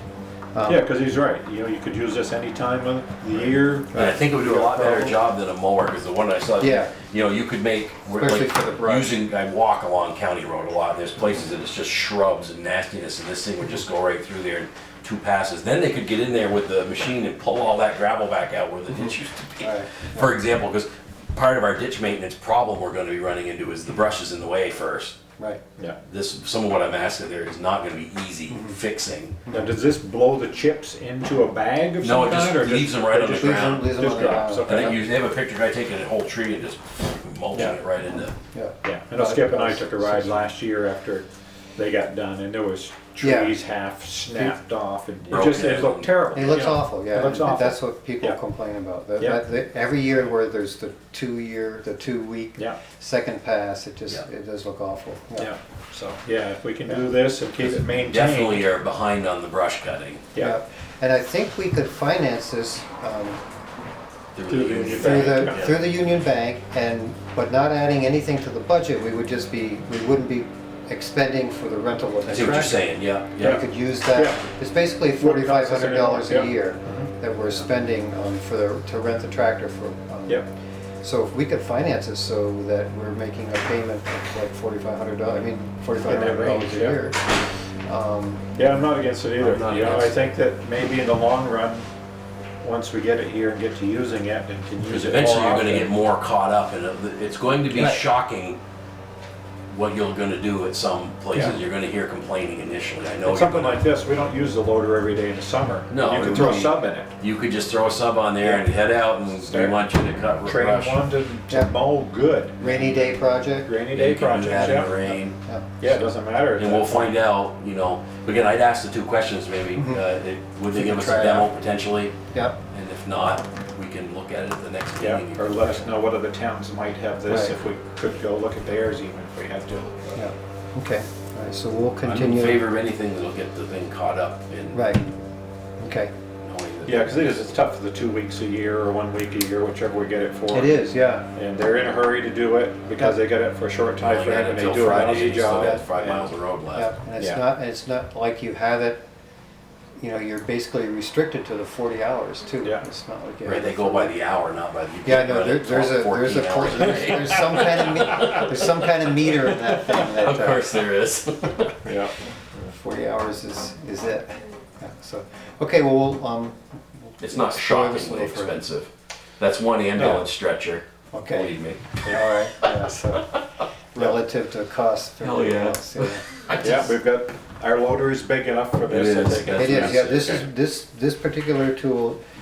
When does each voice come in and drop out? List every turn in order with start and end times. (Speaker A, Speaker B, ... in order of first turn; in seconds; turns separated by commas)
Speaker A: 0.5-0.9, Speaker B: 0.7-4.1, Speaker A: 3.9-5.2, Speaker C: 3.9-25.2, Speaker A: 6.6-6.9, Speaker A: 8.1-9.2, Speaker A: 19.6-20.1, Speaker C: 26.1-29.4, Speaker A: 28.5-28.8, Speaker A: 29.5-29.7, Speaker B: 29.5-35.0, Speaker C: 32.0-38.3, Speaker A: 33.3-34.9, Speaker B: 37.5-37.8, Speaker A: 38.4-40.5, Speaker B: 38.8-48.4, Speaker A: 43.2-43.5, Speaker C: 45.3-46.1, Speaker A: 46.3-55.5, Speaker B: 55.4-58.6, Speaker C: 57.7-60.3, Speaker A: 60.4-63.4, Speaker C: 64.3-65.8, Speaker B: 64.5-65.8, Speaker A: 64.9-80.5, Speaker C: 72.3-73.6, Speaker B: 73.4-74.5, Speaker B: 75.2-77.1, Speaker A: 81.0-88.5, Speaker B: 86.0-87.0, Speaker B: 88.6-91.9, Speaker C: 89.4-90.2, Speaker B: 92.6-95.9, Speaker C: 94.8-98.6, Speaker A: 97.8-98.0, Speaker C: 99.7-103.8, Speaker B: 103.2-107.1, Speaker C: 105.9-111.1, Speaker A: 106.4-106.7, Speaker B: 108.4-109.8, Speaker B: 110.4-113.0, Speaker A: 112.6-113.7, Speaker B: 113.7-115.2, Speaker C: 113.9-115.4, Speaker A: 114.5-114.8, Speaker A: 115.4-116.1, Speaker B: 115.8-117.2, Speaker C: 116.6-122.2, Speaker A: 119.8-120.0, Speaker A: 120.7-121.5, Speaker A: 122.3-122.6, Speaker C: 122.7-125.9, Speaker B: 125.0-130.2, Speaker A: 127.3-127.6, Speaker A: 130.2-132.6, Speaker C: 132.0-134.9, Speaker A: 134.7-135.2, Speaker A: 135.8-136.1, Speaker C: 136.4-137.3, Speaker B: 136.8-140.8, Speaker A: 140.5-141.3, Speaker B: 141.3-146.3, Speaker C: 144.0-146.9, Speaker A: 145.4-146.1, Speaker A: 146.7-149.0, Speaker A: 150.0-154.2, Speaker C: 153.4-161.9, Speaker A: 155.1-160.8, Speaker B: 161.8-162.2, Speaker A: 162.7-168.6, Speaker C: 167.2-172.7, Speaker B: 170.0-170.2, Speaker A: 171.1-171.5, Speaker A: 172.1-173.3, Speaker A: 173.9-176.2, Speaker C: 175.2-176.9, Speaker B: 176.6-180.4, Speaker C: 178.9-180.4, Speaker A: 179.5-182.2